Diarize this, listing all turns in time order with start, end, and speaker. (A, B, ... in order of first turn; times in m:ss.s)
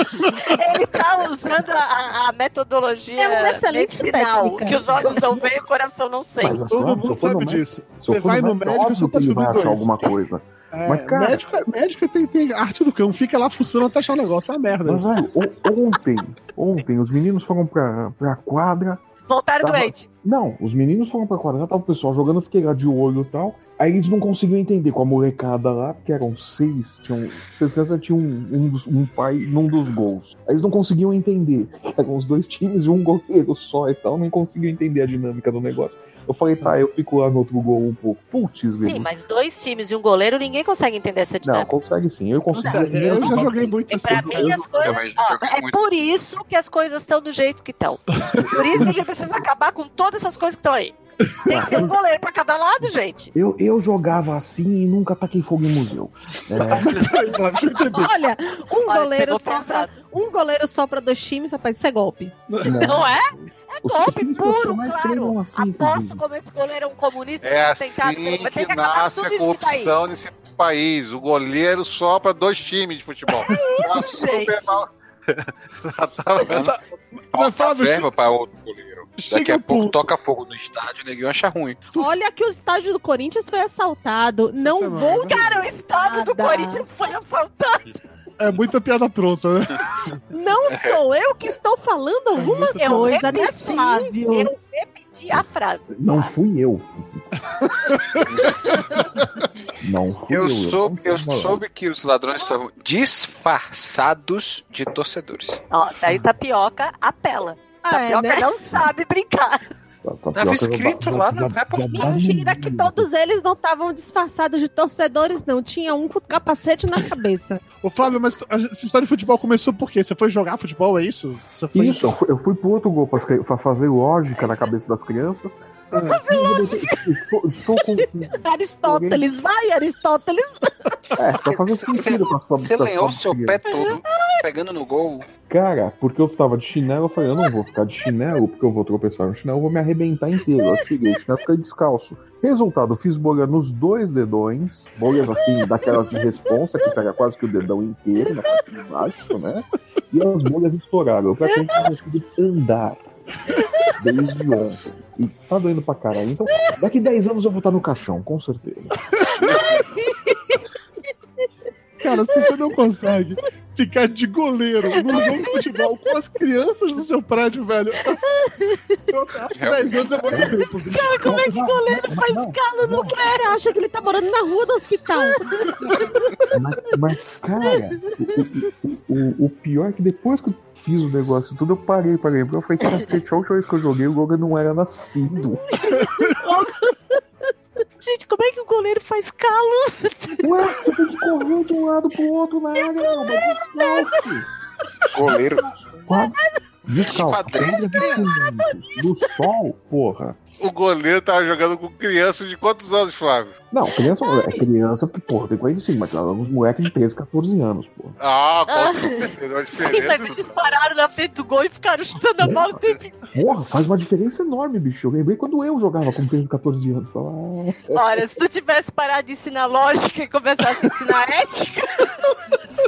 0:00.4-0:06.6 A
0:03.2-0:05.3 B
0:06.4-0:11.4 C
0:06.7-0:09.9 D
0:10.7-0:15.1 D
0:14.8-0:19.0 C
0:19.3-0:20.1 A
0:19.6-0:39.1 C
0:38.8-0:41.7 A
0:41.4-0:44.7 C
0:42.5-0:44.7 D
0:43.3-0:51.0 A
0:44.7-0:45.8 E
0:48.2-0:48.8 D
0:48.4-0:48.9 C
0:51.5-0:51.9 C
0:51.5-0:53.3 A
0:53.3-0:57.1 C
0:56.6-0:58.1 D
0:57.9-1:02.3 B
0:58.9-0:59.9 A
1:02.5-1:03.0 D
1:02.6-1:06.2 C
1:02.8-1:10.0 A
1:07.4-1:16.7 F
1:13.4-1:14.8 A
1:16.4-1:16.8 E
1:16.5-1:18.1 D
1:17.3-1:21.8 E
1:19.2-1:20.1 D
1:21.9-1:26.8 B
1:24.6-1:25.6 D
1:25.3-1:27.8 A
1:28.4-1:30.2 D
1:30.3-1:34.5 B
1:30.7-1:31.0 E
1:32.4-1:33.3 D
1:32.8-1:36.3 A
1:35.9-1:37.2 C
1:37.6-1:39.2 D
1:39.8-1:41.6 C
1:40.3-1:45.6 E
1:45.7-1:49.6 A
1:47.8-1:48.5 B
1:50.0-1:53.1 C
1:50.4-1:52.1 E
1:51.9-1:57.6 B
1:57.8-2:02.1 D
2:01.7-2:05.6 C
2:05.9-2:06.2 D
2:06.2-2:09.3 C
2:08.3-2:10.7 B
2:11.2-2:13.9 C
2:11.4-2:15.3 E
2:15.5-2:33.0 C
2:34.0-2:39.0 C
2:39.4-2:39.8 E
2:42.0-2:48.2 D
2:49.1-2:51.4 D
2:49.6-2:50.1 E
2:50.3-2:50.6 C
2:50.9-2:53.6 A
2:51.2-2:53.2 C
2:52.9-2:55.4 B
2:56.5-3:05.6 C
3:06.0-3:06.9 A
3:08.0-3:10.5 A
3:10.4-3:14.5 C
3:12.8-3:14.2 A
3:15.1-3:15.7 E
3:15.3-3:20.4 C
3:17.0-3:18.3 E
3:18.0-3:18.7 A
3:20.6-3:23.6 F
3:23.7-3:28.2 C
3:24.2-3:24.6 A
3:28.2-3:30.6 F
3:28.7-3:33.2 A
3:32.4-3:38.3 C
3:37.9-3:42.1 A